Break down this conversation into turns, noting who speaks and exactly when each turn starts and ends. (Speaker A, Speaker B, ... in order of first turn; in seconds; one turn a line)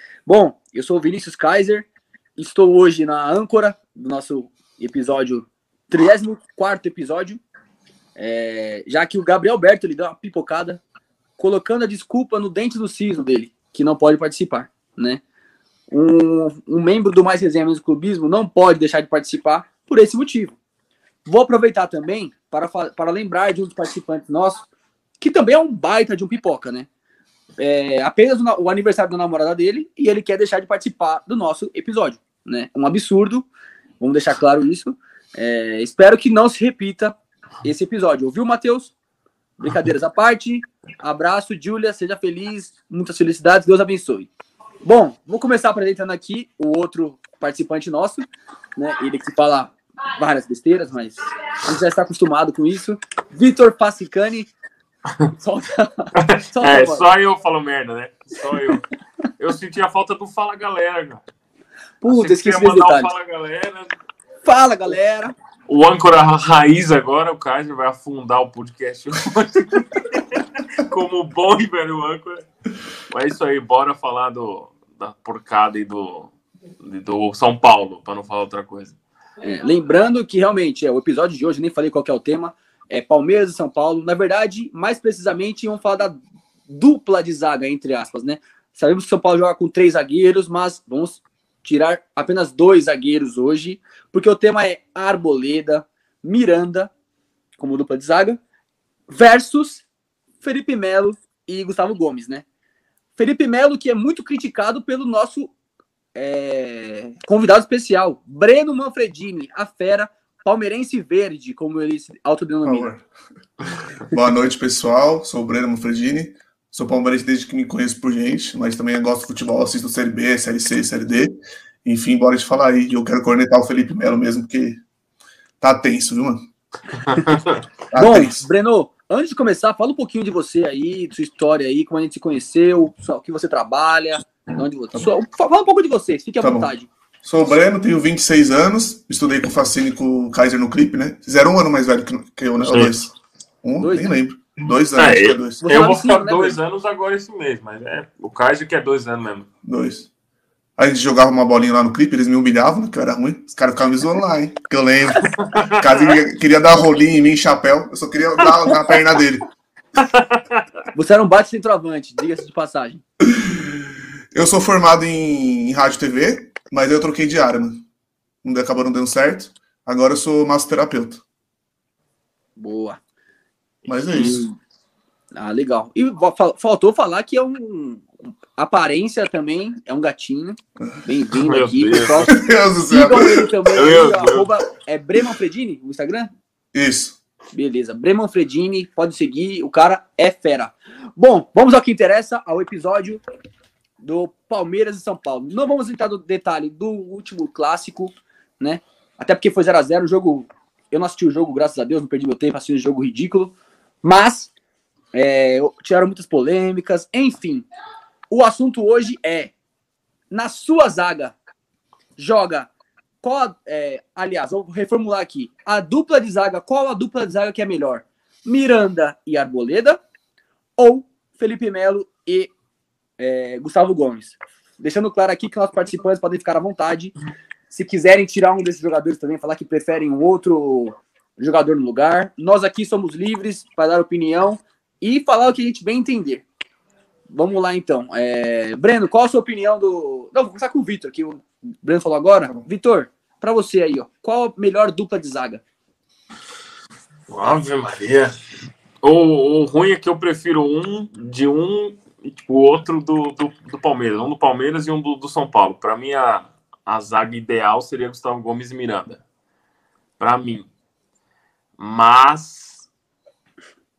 Speaker A: 0.3-7.4
Speaker A: 8.2-10.8
Speaker A: 11.4-15.2
Speaker A: 15.9-20.6
Speaker A: 21.3-24.7
Speaker A: 25.2-26.9
Speaker A: 27.6-33.5
Speaker A: 34.0-38.9
Speaker A: 39.6-44.3
Speaker A: 44.8-54.5
Speaker A: 55.4-57.0
Speaker B: 56.2-58.9
Speaker B: 59.4-61.2
Speaker A: 62.0-63.1
Speaker B: 62.1-63.9
Speaker A: 64.5-65.3
Speaker B: 65.7-72.5
Speaker B: 73.1-79.0
Speaker A: 79.4-86.2
Speaker A: 86.7-96.9
Speaker A: 97.6-98.4
Speaker A: 99.1-99.8
Speaker A: 100.4-102.5
Speaker A: 103.2-105.5
Speaker A: 106.2-112.9
Speaker C: 112.7-113.0
Speaker C: 114.1-124.8
Speaker C: 125.6-126.5
Speaker B: 127.0-127.6
Speaker C: 127.9-128.4
Speaker A: 128.0-136.9
Speaker C: 136.4-136.7
Speaker C: 137.2-145.6
Speaker B: 142.6-143.0
Speaker A: 143.8-144.1
Speaker B: 144.9-149.5
Speaker A: 145.6-146.6
Speaker C: 149.7-150.1
Speaker C: 150.8-159.4
Speaker B: 155.4-156.2
Speaker B: 158.4-158.8
Speaker B: 160.0-160.6
Speaker A: 160.9-163.0
Speaker C: 163.3-163.8
Speaker C: 164.3-167.8
Speaker C: 168.4-171.2
Speaker A: 172.6-173.0
Speaker B: 173.8-174.5
Speaker C: 173.9-174.4
Speaker A: 174.2-174.5
Speaker A: 175.3-186.3
Speaker B: 181.4-182.3
Speaker C: 182.2-184.0
Speaker B: 183.7-184.5
Speaker C: 186.7-187.2
Speaker A: 187.5-193.2
Speaker A: 194.0-204.5
Speaker A: 205.1-207.7
Speaker A: 208.3-209.5
Speaker A: 210.3-211.3
Speaker A: 212.2-212.7
Speaker A: 213.2-220.0
Speaker A: 220.8-222.5
Speaker A: 223.2-227.1
Speaker A: 227.7-236.4
Speaker A: 237.3-245.6
Speaker B: 247.3-248.4
Speaker B: 249.0-259.2
Speaker B: 260.2-260.7
Speaker B: 261.8-262.9